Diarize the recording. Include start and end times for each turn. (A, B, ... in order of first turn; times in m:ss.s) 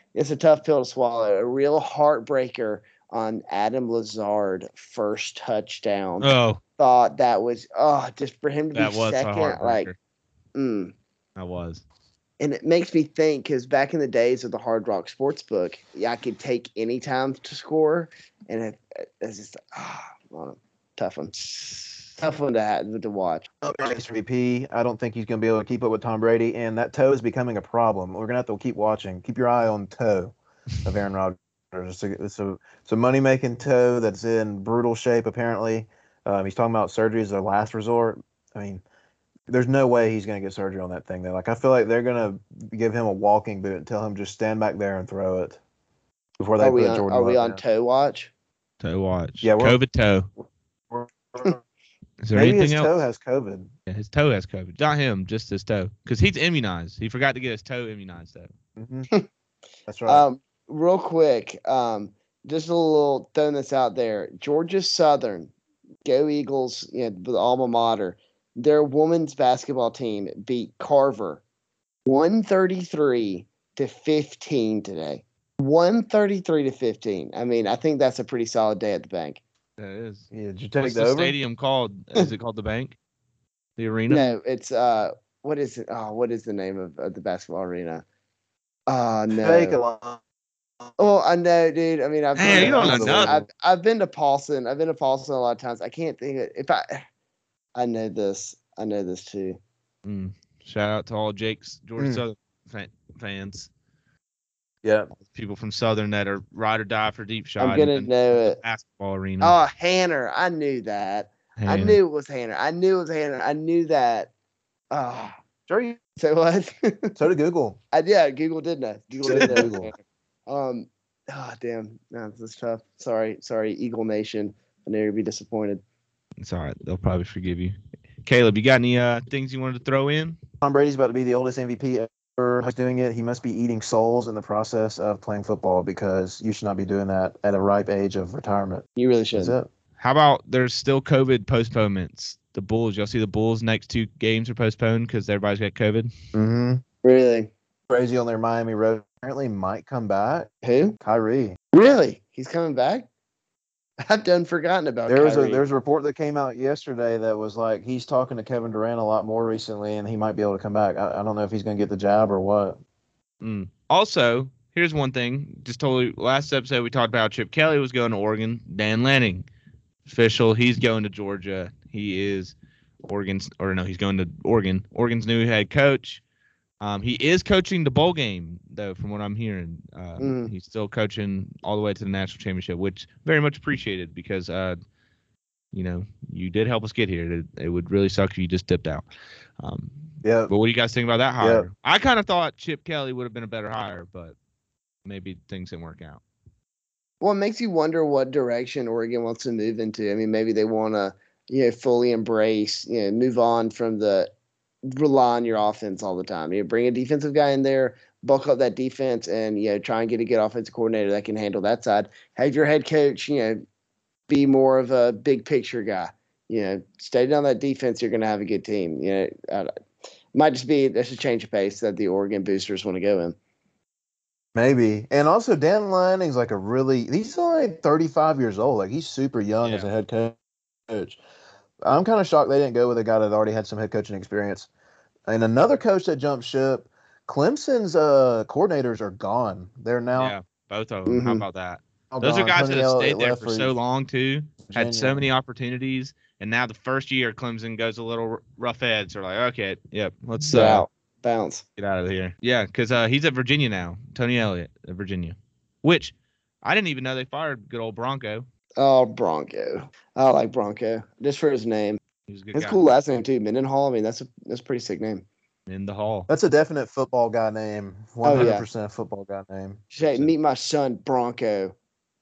0:00.2-0:09.9 A
0:06.2-0:06.6 B
0:08.7-0:10.0 B
0:10.6-0:10.9 A
0:11.4-0:11.8 B
0:12.4-0:21.5 A
0:22.2-0:23.5 A
0:23.6-0:38.8 C
0:39.5-0:45.6 C
0:46.4-0:47.6 C
0:46.6-0:48.3 A
0:48.8-0:50.3 B
0:49.4-0:49.8 C
0:50.9-0:51.6 C
0:52.2-0:52.9 B
0:52.3-0:53.7 C
0:53.9-0:58.5 B
0:58.8-0:59.1 C
0:59.9-1:00.2 C
1:00.1-1:05.5 A
1:06.0-1:11.4 A
1:12.1-1:19.4 A
1:19.8-1:20.3 B
1:20.3-1:21.4 C
1:20.8-1:23.0 B
1:23.8-1:24.3 B
1:24.1-1:28.0 A
1:28.9-1:29.8 A
1:29.4-1:30.2 C
1:31.0-1:37.0 A
1:32.4-1:33.3 B
1:32.4-1:33.5 C
1:37.8-1:39.6 A
1:40.0-1:43.7 B
1:42.0-1:42.2 C
1:44.8-1:45.1 C
1:45.2-1:49.6 B
1:47.6-1:48.6 A
1:49.4-1:54.3 A
1:51.6-1:52.0 B
1:54.9-1:55.4 A
1:55.7-1:56.0 C
1:56.2-1:57.2 A
1:57.2-1:57.8 C
1:57.9-2:05.8 A
1:59.2-1:59.9 C
1:59.3-1:59.7 B
2:06.4-2:10.4 B
2:10.6-2:18.8 C
2:19.0-2:19.6 A
2:19.4-2:19.7 C
2:20.0-2:26.1 B
2:26.3-2:26.8 C
2:27.0-2:27.5 A
2:27.9-2:30.5 C
2:30.6-2:31.0 A
2:31.0-2:31.6 C
2:31.7-2:33.1 A
2:34.0-2:35.6 A
2:35.1-2:42.8 C
2:43.4-2:49.5 B
2:50.1-2:56.2 B
2:56.8-3:04.8 B
3:00.2-3:00.5 A
3:05.7-3:09.1 B
3:09.6-3:14.4 B
3:10.2-3:10.5 C
3:11.4-3:11.7 C
3:15.0-3:16.2 B
3:17.2-3:24.3 A
3:24.9-3:33.6 A
3:34.3-3:39.7 A
3:40.3-3:43.4 A
3:44.6-3:50.4 C
3:49.6-3:49.9 B
3:50.9-3:51.2 C
3:51.8-3:54.7 C
3:55.3-4:00.3 C
4:00.2-4:10.8 B
4:01.1-4:01.4 A
4:02.1-4:03.7 C
4:04.6-4:05.2 C
4:10.5-4:11.6 A
4:11.8-4:18.5 B
4:18.8-4:22.0 A
4:22.3-4:22.8 B
4:22.5-4:25.2 A
4:25.7-4:26.3 B
4:26.3-4:30.3 C
4:28.2-4:28.7 A
4:29.9-4:31.8 A